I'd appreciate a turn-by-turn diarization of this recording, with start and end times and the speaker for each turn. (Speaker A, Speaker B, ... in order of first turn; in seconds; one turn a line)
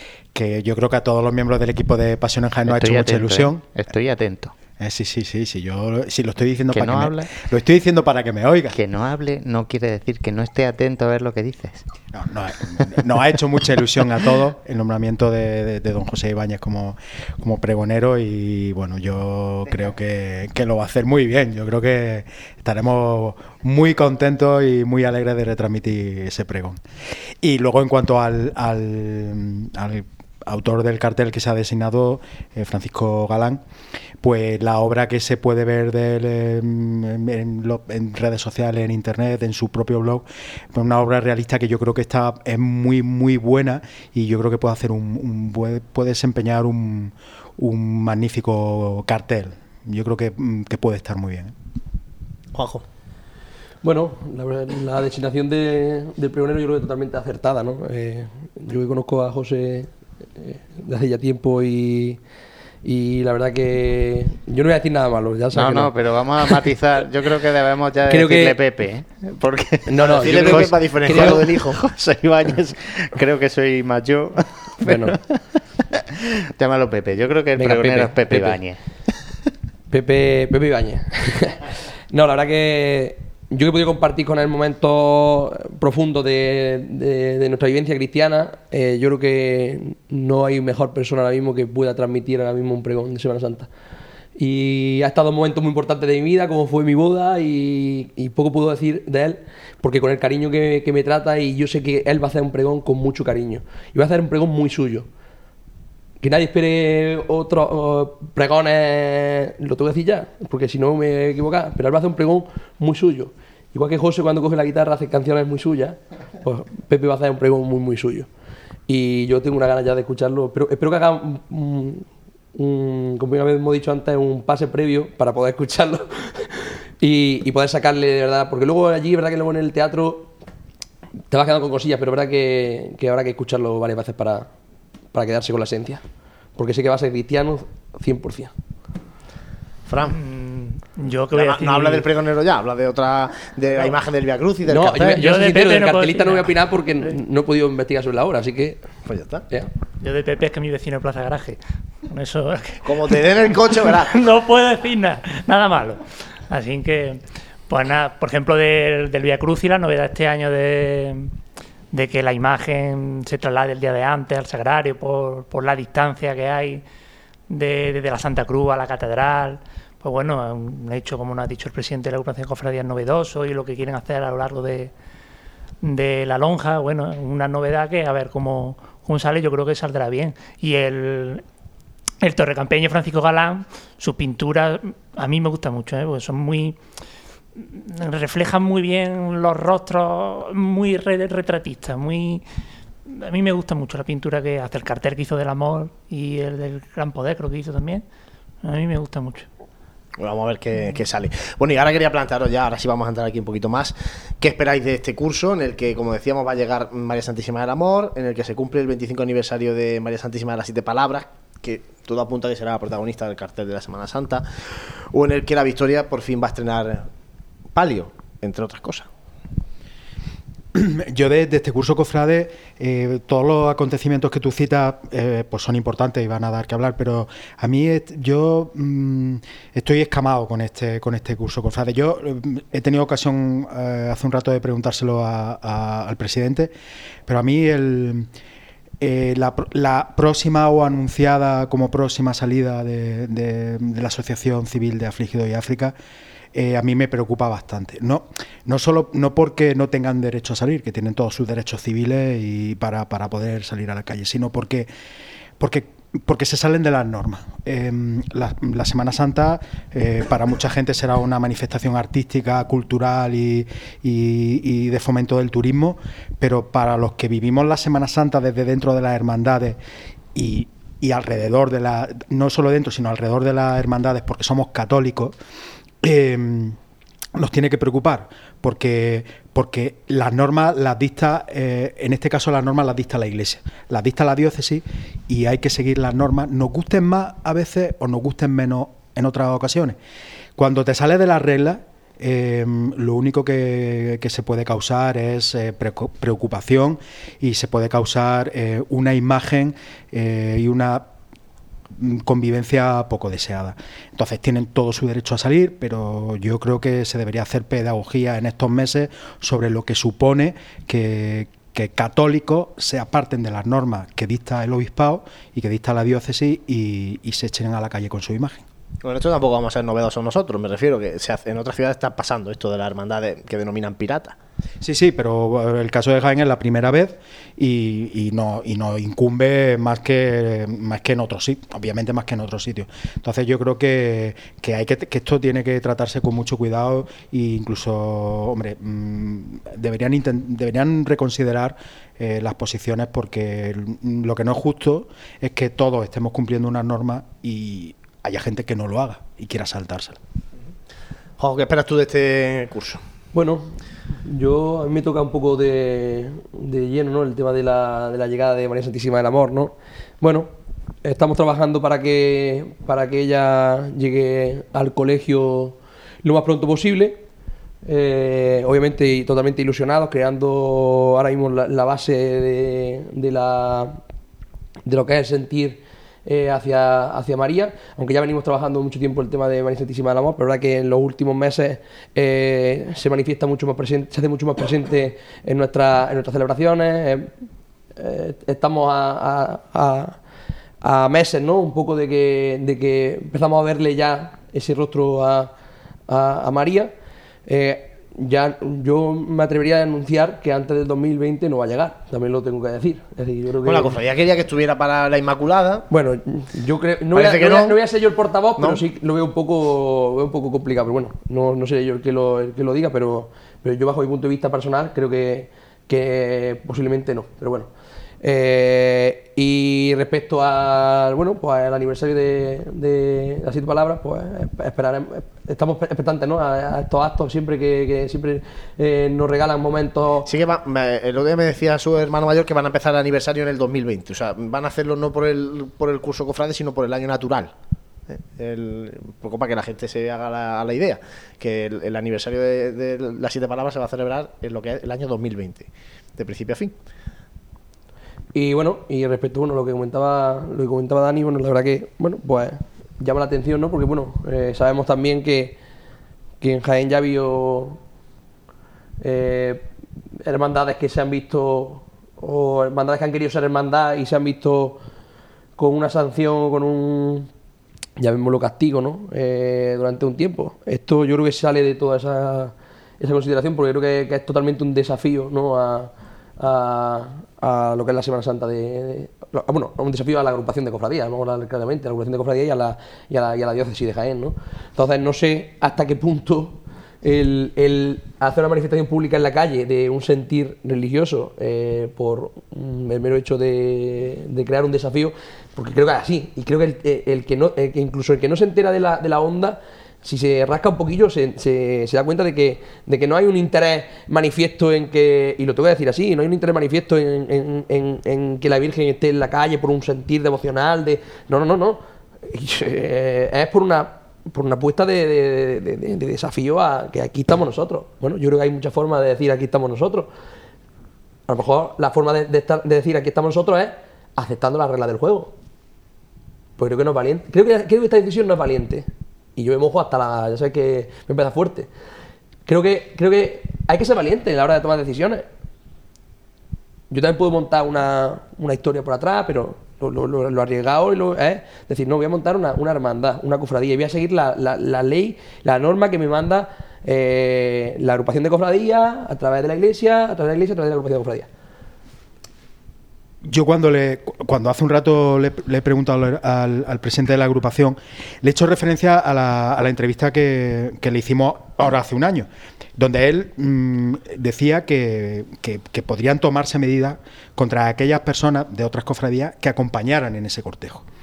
Speaker A: 0.3-3.6
Speaker B: 2.7-4.5
Speaker A: 4.8-8.8
Speaker B: 6.7-7.3
Speaker B: 8.7-11.9
Speaker A: 12.1-26.8
Speaker A: 27.4-33.6
Speaker A: 34.2-51.5
Speaker C: 52.5-52.8
Speaker D: 53.8-62.2
Speaker D: 62.8-66.6
Speaker B: 65.5-75.6
Speaker D: 68.1-68.6
Speaker D: 69.9-71.5
Speaker C: 70.2-71.8
Speaker D: 74.8-75.2
Speaker B: 76.1-78.8
Speaker D: 77.6-78.6
Speaker D: 79.9-93.7
Speaker D: 94.4-105.1
Speaker D: 106.2-118.3
Speaker D: 118.9-130.3
Speaker D: 131.3-134.5
Speaker D: 135.1-136.0
Speaker D: 136.6-138.5
Speaker C: 139.9-140.2
Speaker E: 140.1-142.1
Speaker C: 141.3-145.2
Speaker D: 144.7-148.8
Speaker E: 145.1-147.1
Speaker C: 149.1-149.4
Speaker E: 150.0-161.3
Speaker C: 152.8-154.1
Speaker E: 161.9-166.8
Speaker E: 167.5-174.9
Speaker E: 175.8-181.4
Speaker E: 182.2-186.8
Speaker E: 187.6-192.4
Speaker E: 193.1-198.0
Speaker E: 198.6-199.5
Speaker C: 200.2-217.1
Speaker C: 217.8-219.1
Speaker A: 220.7-236.7
Speaker A: 237.3-238.3
Speaker A: 239.0-245.9
Speaker A: 246.5-254.9
Speaker A: 255.6-269.8
Speaker A: 270.4-275.4
Speaker A: 276.0-276.8
Speaker A: 277.4-290.0
Speaker A: 290.6-301.1
Speaker A: 302.0-318.6
Speaker C: 319.0-324.4
Speaker A: 324.8-350.2
Speaker C: 351.4-353.0
Speaker D: 353.3-360.5
Speaker D: 361.0-367.2
Speaker D: 367.9-374.0
Speaker D: 374.9-387.3
Speaker D: 388.0-390.2
Speaker D: 390.8-395.5
Speaker D: 396.1-396.9
Speaker D: 397.5-404.0
Speaker C: 403.6-405.9
Speaker D: 405.9-430.3
Speaker C: 407.1-407.8
Speaker C: 408.6-408.8
Speaker C: 430.2-437.5
Speaker C: 438.1-446.7
Speaker D: 448.3-455.6
Speaker D: 456.4-457.8
Speaker D: 459.0-459.7
Speaker D: 460.2-464.8
Speaker D: 465.6-467.3
Speaker D: 468.0-520.1
Speaker D: 521.3-525.3
Speaker D: 526.6-531.7
Speaker D: 532.5-535.2
Speaker D: 536.9-551.3
Speaker A: 553.2-570.9